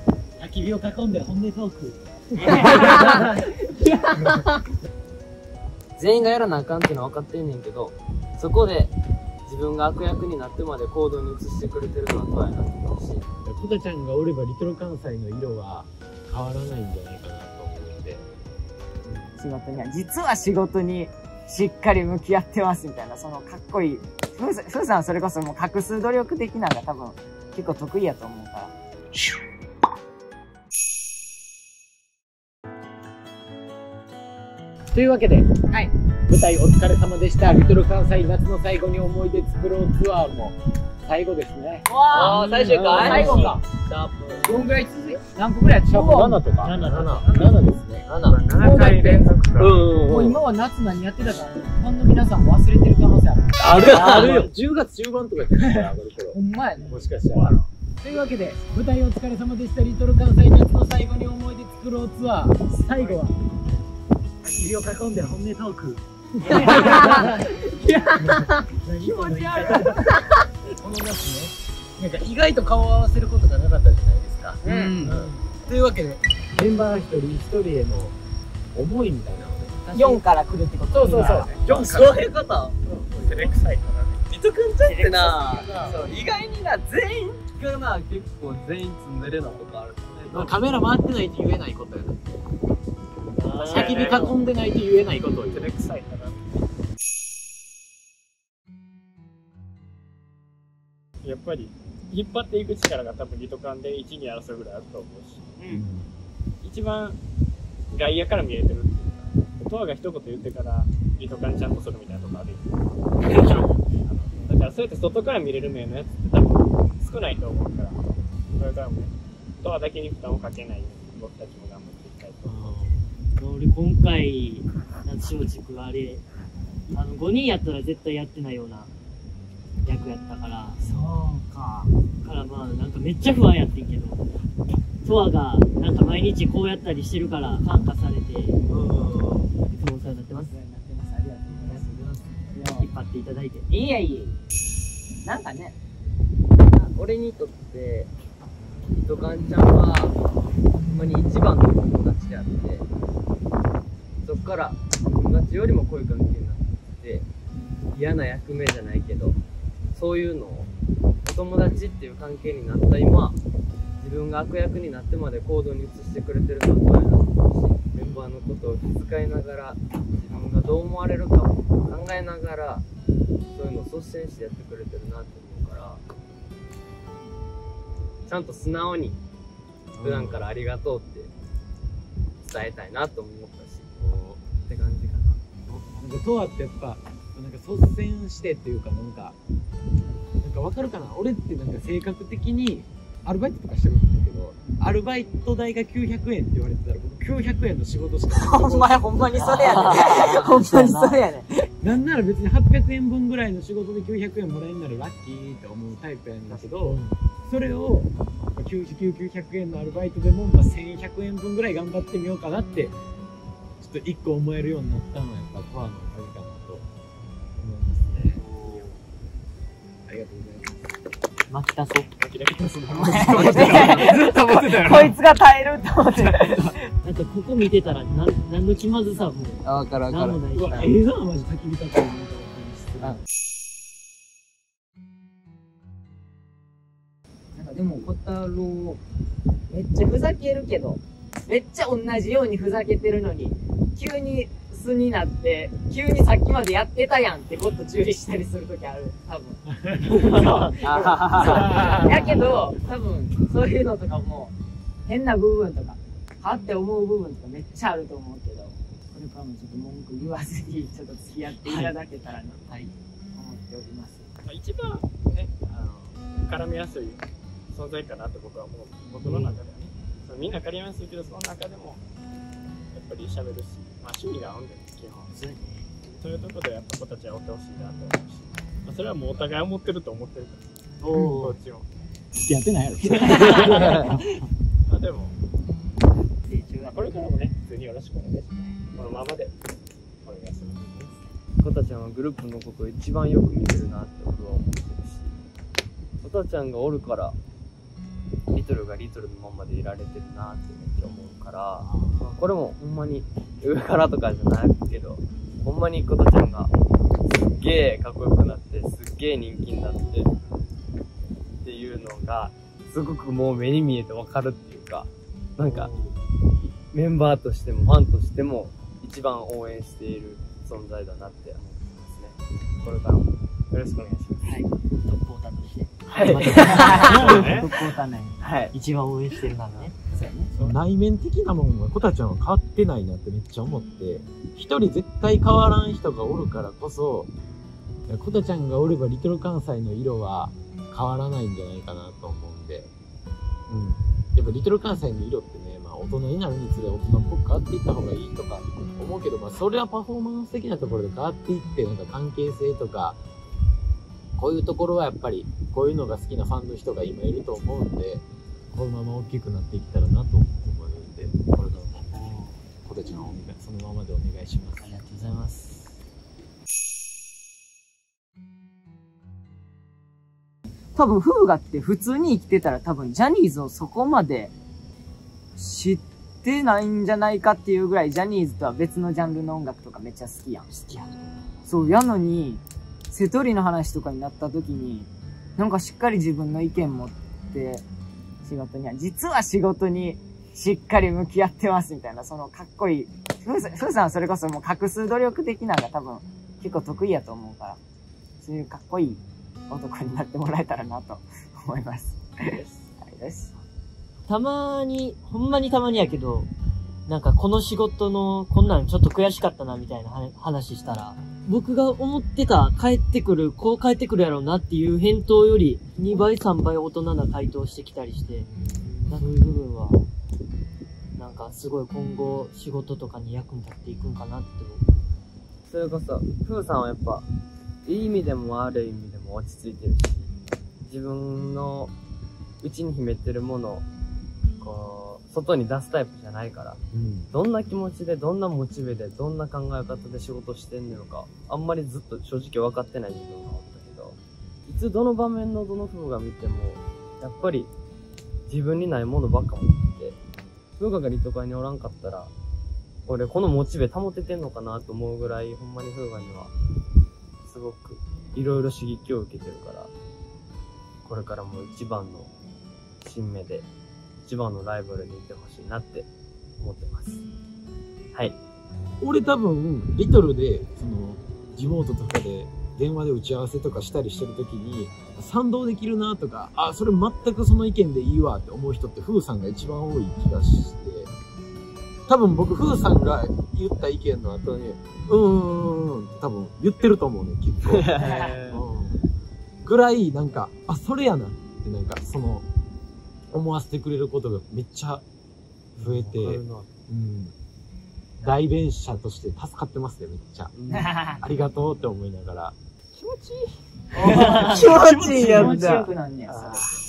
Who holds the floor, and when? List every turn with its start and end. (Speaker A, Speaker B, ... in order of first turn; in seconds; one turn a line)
Speaker A: 0.4-3.2
Speaker B: 2.5-3.3
Speaker C: 6.0-8.9
Speaker C: 9.5-13.2
Speaker A: 13.4-18.2
Speaker B: 19.4-28.7
Speaker A: 34.9-35.5
Speaker A: 36.3-43.6
Speaker B: 41.9-43.6
Speaker C: 42.1-44.5
Speaker D: 42.2-43.4
Speaker B: 44.4-46.4
Speaker A: 45.8-48.4
Speaker D: 46.6-47.3
Speaker B: 47.2-47.6
Speaker E: 48.3-49.8
Speaker B: 48.6-49.3
Speaker A: 49.6-50.4
Speaker B: 50.0-53.5
Speaker A: 53.6-63.3
Speaker D: 53.8-54.5
Speaker B: 55.6-57.5
Speaker B: 58.3-58.5
Speaker A: 64.4-70.0
Speaker B: 66.6-67.2
Speaker B: 69.7-70.1
Speaker A: 70.8-78.2
Speaker B: 74.6-75.0
Speaker C: 74.8-75.3
Speaker A: 78.7-79.8
Speaker C: 79.8-80.2
Speaker B: 79.9-81.5
Speaker C: 81.0-82.8
Speaker E: 81.2-81.5
Speaker A: 81.7-82.2
Speaker E: 83.2-84.2
Speaker C: 84.3-90.6
Speaker D: 84.8-86.0
Speaker A: 90.3-92.4
Speaker D: 93.3-94.4
Speaker E: 93.5-94.2
Speaker A: 93.7-95.7
Speaker E: 95.5-96.7
Speaker E: 101.2-105.5
Speaker A: 105.7-106.1
Speaker E: 106.6-107.2
Speaker E: 107.9-122.7
Speaker A: 122.4-123.1
Speaker D: 123.3-126.2
Speaker D: 126.9-128.9
Speaker D: 129.8-130.8
Speaker B: 130.8-131.9
Speaker A: 130.8-131.1
Speaker D: 132.2-134.2
Speaker D: 135.0-138.6
Speaker D: 139.7-140.5
Speaker B: 140.3-142.9
Speaker D: 142.7-143.7
Speaker B: 143.7-144.4
Speaker B: 145.2-145.8
Speaker C: 146.7-148.1
Speaker C: 148.9-150.2
Speaker C: 150.8-152.8
Speaker C: 154.2-157.3
Speaker C: 157.9-159.4
Speaker C: 159.9-160.7
Speaker C: 161.2-163.4
Speaker C: 164.0-172.8
Speaker C: 173.5-176.0
Speaker C: 178.2-179.2
Speaker A: 179.9-180.5
Speaker C: 180.0-181.3
Speaker C: 182.4-183.9
Speaker A: 183.9-184.4
Speaker C: 184.6-185.4
Speaker A: 185.7-189.4
Speaker A: 190.4-200.4
Speaker B: 198.3-201.7
Speaker D: 199.6-201.2
Speaker C: 200.1-200.4
Speaker A: 201.8-212.9
Speaker A: 213.8-216.8
Speaker A: 217.6-218.4
Speaker A: 220.1-220.7
Speaker D: 221.5-222.1
Speaker E: 222.2-225.0
Speaker B: 222.9-226.8
Speaker D: 227.0-230.9
Speaker C: 229.6-230.8
Speaker A: 230.5-233.2
Speaker B: 237.5-239.0
Speaker B: 239.7-249.7
Speaker D: 250.3-250.6
Speaker B: 250.3-254.5
Speaker C: 250.8-252.0
Speaker A: 251.0-252.5
Speaker B: 255.1-262.6
Speaker B: 263.3-264.2
Speaker E: 264.4-272.0
Speaker A: 269.1-269.6
Speaker E: 272.9-275.3
Speaker D: 275.3-275.9
Speaker E: 276.2-280.6
Speaker D: 281.0-281.6
Speaker E: 281.3-281.9
Speaker A: 282.4-284.0
Speaker C: 283.3-284.1
Speaker D: 283.3-284.1
Speaker E: 284.9-285.4
Speaker D: 286.4-287.4
Speaker E: 286.8-289.6
Speaker E: 290.2-291.2
Speaker C: 291.6-295.4
Speaker C: 296.2-297.4
Speaker C: 298.5-306.7
Speaker A: 301.8-302.3
Speaker C: 307.2-310.4
Speaker C: 311.6-315.9
Speaker D: 315.7-316.0
Speaker C: 316.7-324.0
Speaker E: 323.9-324.4
Speaker D: 324.4-327.6
Speaker C: 326.1-327.4
Speaker B: 326.5-328.3
Speaker E: 327.2-327.7
Speaker C: 328.4-328.7
Speaker D: 328.7-329.9
Speaker B: 330.1-330.5
Speaker A: 330.5-337.3
Speaker A: 338.1-342.9
Speaker A: 343.7-353.2
Speaker A: 354.4-362.2
Speaker A: 362.8-364.9
Speaker B: 370.9-374.5
Speaker B: 375.6-380.7
Speaker D: 380.8-381.4
Speaker B: 381.6-387.8
Speaker B: 388.4-397.8
Speaker B: 398.4-403.5
Speaker D: 404.3-406.5
Speaker D: 407.1-418.5
Speaker D: 419.1-420.0
Speaker D: 421.1-424.8
Speaker C: 425.7-427.3
Speaker C: 427.8-430.3
Speaker C: 430.8-431.9
Speaker C: 432.6-433.9
Speaker C: 434.6-447.7
Speaker A: 436.9-437.3
Speaker C: 448.5-450.2
Speaker C: 450.8-452.3
Speaker C: 453.1-456.5
Speaker C: 457.4-459.9
Speaker C: 461.0-462.3
Speaker C: 463.0-463.7
Speaker C: 464.2-466.1
Speaker C: 466.6-467.2
Speaker A: 469.0-481.1
Speaker A: 482.1-487.9
Speaker C: 487.6-488.7
Speaker B: 488.0-488.3
Speaker A: 488.5-489.1
Speaker A: 489.6-492.4
Speaker A: 493.3-495.0
Speaker C: 495.8-496.7
Speaker A: 495.8-497.3
Speaker A: 498.2-502.5
Speaker C: 500.6-500.9
Speaker B: 500.7-501.1
Speaker A: 503.9-505.9
Speaker B: 503.9-506.7
Speaker D: 504.1-504.5
Speaker C: 505.1-506.6